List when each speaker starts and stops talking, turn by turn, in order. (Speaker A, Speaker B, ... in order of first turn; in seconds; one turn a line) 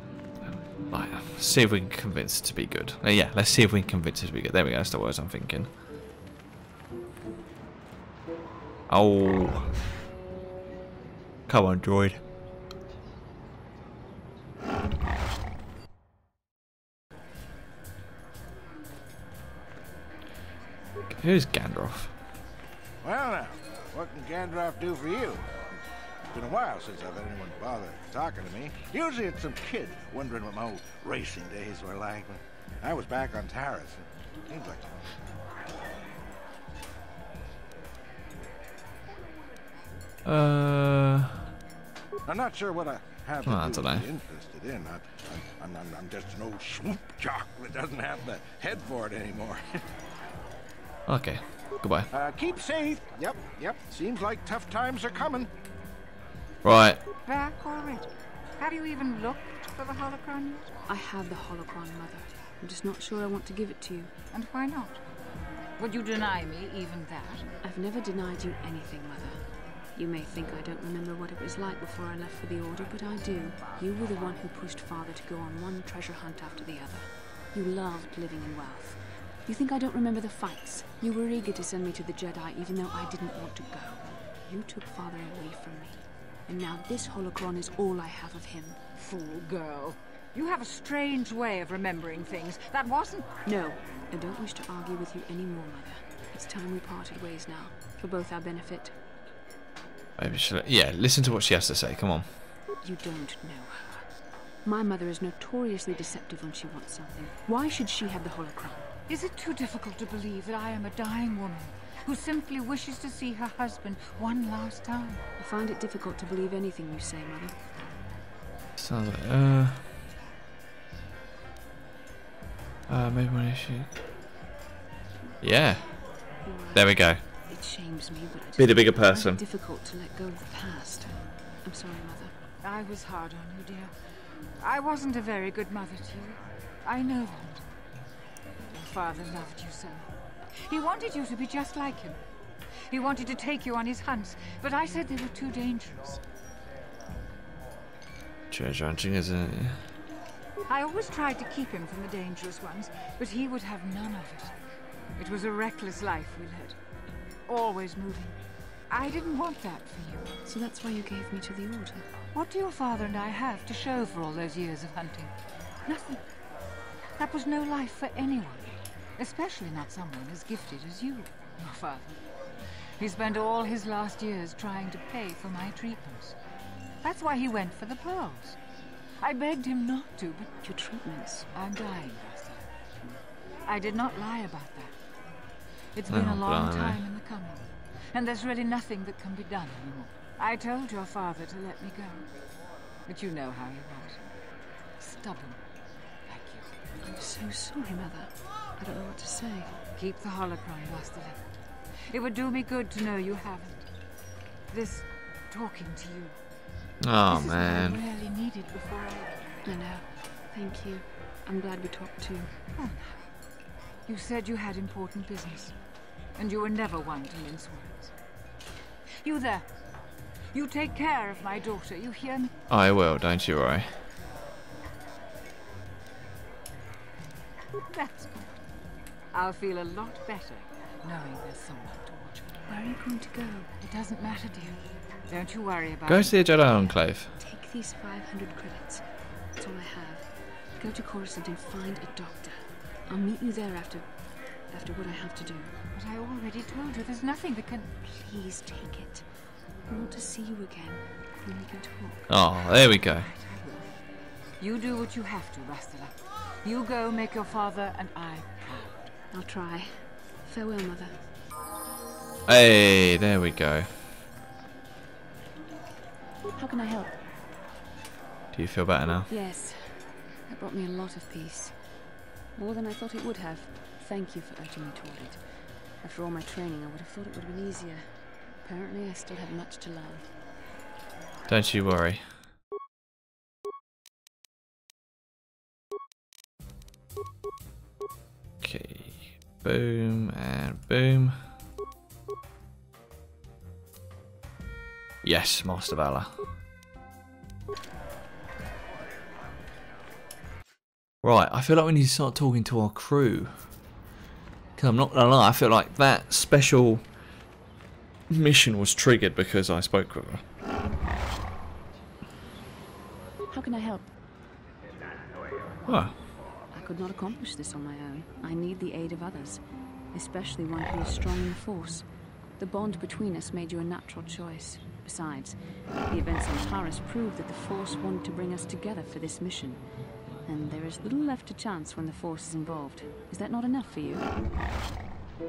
Speaker A: 0.9-5.7
Speaker A: 8.9-9.7
Speaker A: 11.5-12.2
Speaker A: 21.1-22.1
Speaker B: 23.0-25.5
Speaker B: 26.3-34.9
Speaker A: 40.2-41.4
Speaker B: 42.2-49.6
Speaker A: 43.4-44.1
Speaker A: 51.1-52.1
Speaker B: 52.1-55.5
Speaker A: 56.6-57.0
Speaker C: 57.2-60.7
Speaker D: 60.9-64.1
Speaker C: 64.3-65.0
Speaker C: 65.8-67.5
Speaker D: 67.6-69.4
Speaker D: 69.9-88.8
Speaker C: 89.0-93.3
Speaker D: 93.4-99.0
Speaker A: 100.2-102.3
Speaker D: 102.8-104.1
Speaker D: 104.6-108.8
Speaker C: 109.1-115.2
Speaker D: 115.4-117.5
Speaker A: 118.8-119.9
Speaker A: 122.9-123.9
Speaker A: 125.4-126.0
Speaker D: 126.4-132.3
Speaker A: 126.7-127.2
Speaker A: 128.6-129.4
Speaker C: 132.6-137.6
Speaker C: 138.7-142.2
Speaker C: 142.9-146.2
Speaker A: 148.5-149.8
Speaker C: 150.7-154.6
Speaker C: 155.2-156.8
Speaker C: 157.5-158.4
Speaker C: 158.9-160.3
Speaker D: 160.4-162.1
Speaker C: 162.3-165.3
Speaker C: 165.8-166.2
Speaker C: 167.2-172.2
Speaker C: 173.0-176.4
Speaker C: 177.0-178.6
Speaker C: 179.2-180.5
Speaker D: 180.6-181.5
Speaker C: 181.5-182.7
Speaker C: 183.7-184.9
Speaker C: 185.9-192.3
Speaker A: 186.1-187.0
Speaker C: 193.1-194.2
Speaker C: 195.0-195.6
Speaker C: 196.2-196.7
Speaker D: 197.0-199.7
Speaker C: 199.9-201.4
Speaker C: 202.1-203.9
Speaker C: 204.7-206.4
Speaker A: 207.0-208.0
Speaker C: 207.2-209.3
Speaker D: 209.6-212.5
Speaker C: 212.7-213.2
Speaker C: 214.1-215.7
Speaker C: 216.3-218.1
Speaker C: 219.2-219.7
Speaker C: 220.5-222.5
Speaker A: 222.7-223.9
Speaker C: 227.9-228.5
Speaker C: 229.3-232.5
Speaker D: 232.7-233.7
Speaker C: 233.8-236.3
Speaker A: 236.1-237.3
Speaker D: 237.4-239.0
Speaker D: 239.6-240.3
Speaker D: 240.8-244.1
Speaker D: 244.7-245.7
Speaker C: 245.9-247.9
Speaker D: 248.0-249.2
Speaker D: 249.9-252.2
Speaker A: 252.3-253.3
Speaker C: 252.8-253.9
Speaker C: 254.6-259.1
Speaker D: 259.3-261.1
Speaker A: 262.5-263.9
Speaker D: 266.6-267.1
Speaker A: 268.5-269.3
Speaker D: 269.3-271.7
Speaker D: 272.6-275.4
Speaker D: 276.0-278.1
Speaker D: 278.6-280.2
Speaker A: 281.5-282.2
Speaker A: 288.6-291.4
Speaker A: 295.2-296.4
Speaker A: 301.2-303.7
Speaker A: 304.8-307.0
Speaker A: 308.3-310.4
Speaker D: 313.5-314.1
Speaker A: 315.9-316.2
Speaker D: 316.7-319.6
Speaker D: 320.1-322.1
Speaker D: 322.6-325.6
Speaker D: 326.1-329.8
Speaker D: 330.4-334.3